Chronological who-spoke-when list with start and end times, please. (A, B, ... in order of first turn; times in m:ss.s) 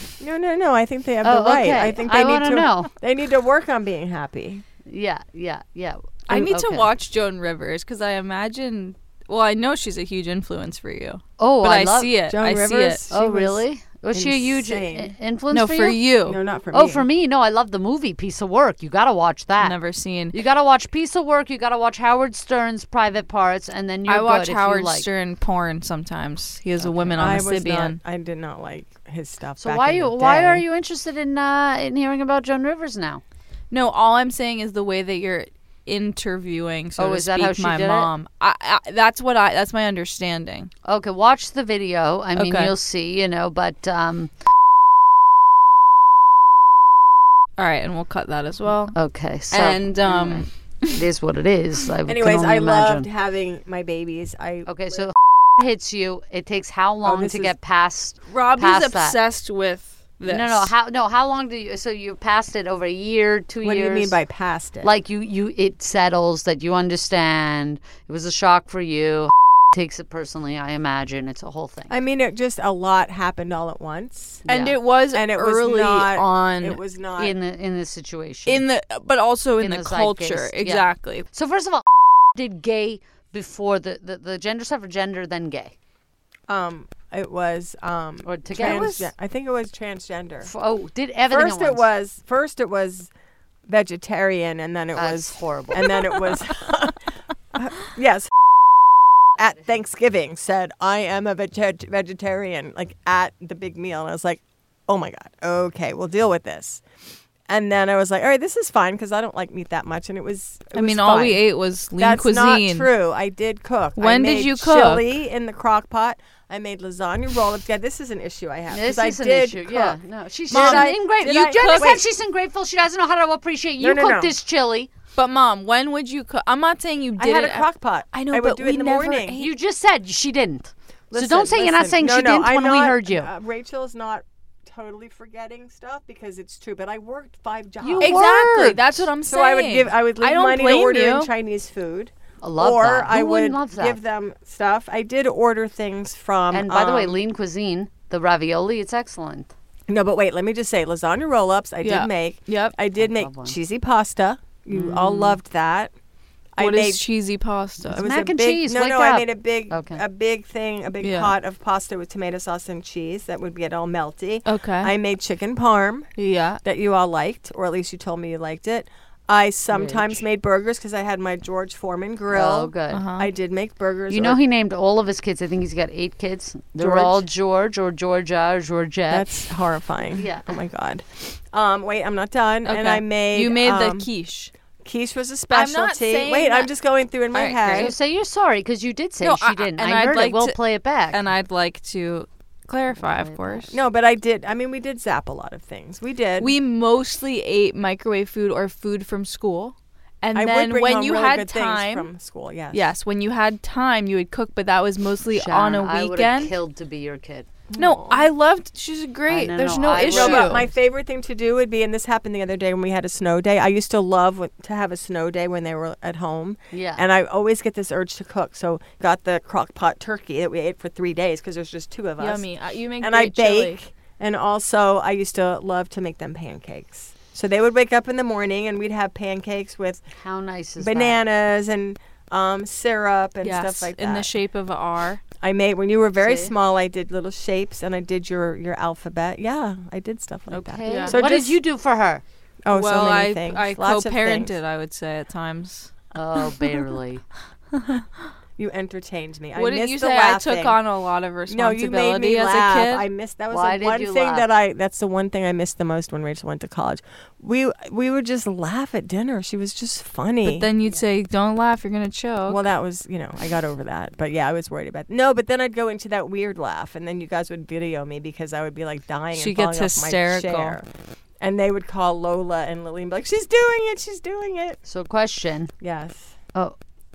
0:00.2-0:04.6 A
0:01.2-0:02.9 B
0:04.8-0:06.9 B
0:06.3-0:13.0 C
0:11.4-0:12.1 B
0:12.3-0:15.1 A
0:13.1-0:16.0 B
0:15.5-0:16.4 C
0:16.2-0:17.0 A
0:16.7-0:19.8 B
0:19.6-0:20.4 C
0:20.3-0:25.1 B
0:24.1-0:28.0 C
0:26.8-0:27.4 B
0:27.2-0:30.6 A
0:29.6-0:33.2 B
0:33.7-0:40.7 C
0:37.0-0:38.1 B
0:40.8-0:44.3 B
0:42.4-0:42.7 C
0:47.6-0:48.9 C
0:48.9-0:53.1 B
0:49.5-0:51.0 C
0:52.1-0:55.0 A
0:54.7-0:59.2 B
0:57.0-0:57.5 A
0:58.3-1:00.7 C
1:00.2-1:04.2 B
1:03.6-1:04.9 A
1:04.8-1:11.9 B
1:11.9-1:14.5 A
1:14.5-1:16.8 C
1:14.5-1:14.8 B
1:15.1-1:17.4 A
1:17.2-1:18.6 B
1:18.5-1:21.2 C
1:19.6-1:25.7 B
1:26.5-1:30.5 A
1:28.2-1:29.0 B
1:28.6-1:29.0 C
1:30.4-1:31.9 B
1:31.3-1:33.1 A
1:33.7-1:38.3 A
1:35.0-1:36.0 B
1:39.4-1:46.8 A
1:47.5-1:51.4 A
1:50.7-1:52.9 C
1:52.0-2:00.0 A
1:54.0-1:55.0 C
1:58.7-2:04.9 B
2:00.5-2:02.0 C
2:00.5-2:02.0 A
2:03.8-2:04.3 A
2:05.2-2:09.5 C
2:07.2-2:09.4 A
2:09.4-2:13.3 B
2:11.1-2:18.3 A
2:17.8-2:18.8 B
2:18.0-2:21.3 C
2:19.1-2:27.2 A
2:22.4-2:24.0 B
2:26.5-2:29.5 B
2:29.9-2:35.9 A
2:31.8-2:32.8 C
2:33.0-2:33.6 B
2:34.7-2:35.3 B
2:36.5-2:37.0 A
2:36.6-2:38.1 C
2:37.9-2:40.0 B
2:37.9-2:46.1 A
2:41.0-2:41.4 C
2:44.4-2:44.9 C
2:46.2-2:46.6 C
2:46.6-2:54.4 A
2:49.7-2:50.2 B
2:52.3-2:53.0 B
2:52.9-2:53.3 C
2:54.1-2:59.3 B
2:56.8-2:57.2 A
2:59.1-3:04.1 A
3:00.1-3:00.6 B
3:02.6-3:04.5 C
3:04.8-3:07.9 A
3:05.5-3:06.7 C
3:07.3-3:07.9 C
3:07.7-3:11.2 B
3:09.2-3:10.6 C
3:11.1-3:13.7 C
3:12.9-3:13.7 B
3:13.7-3:16.6 A
3:16.4-3:22.1 C
3:20.3-3:22.9 A
3:22.7-3:26.5 C
3:25.3-3:27.5 B
3:27.7-3:28.3 A
3:27.8-3:30.6 C
3:29.3-3:30.6 B
3:30.0-3:42.5 A
3:36.7-3:37.0 B
3:42.2-3:43.8 C
3:43.0-3:50.0 A
3:50.1-3:51.2 B
3:50.8-3:54.3 A
3:53.4-3:55.2 C
3:55.4-4:01.6 A
3:56.2-3:56.5 B
4:00.5-4:02.2 B
4:00.8-4:01.2 C
4:02.6-4:04.5 A
4:02.7-4:05.9 C
4:06.1-4:07.2 B
4:07.7-4:08.1 C
4:08.6-4:10.8 A
4:09.6-4:13.0 C
4:11.5-4:20.7 A
4:13.5-4:14.5 B
4:20.4-4:22.6 C
4:22.5-4:30.9 A
4:29.3-4:30.8 C
4:31.4-4:34.8 A
4:34.8-4:35.7 B
4:35.8-4:36.3 A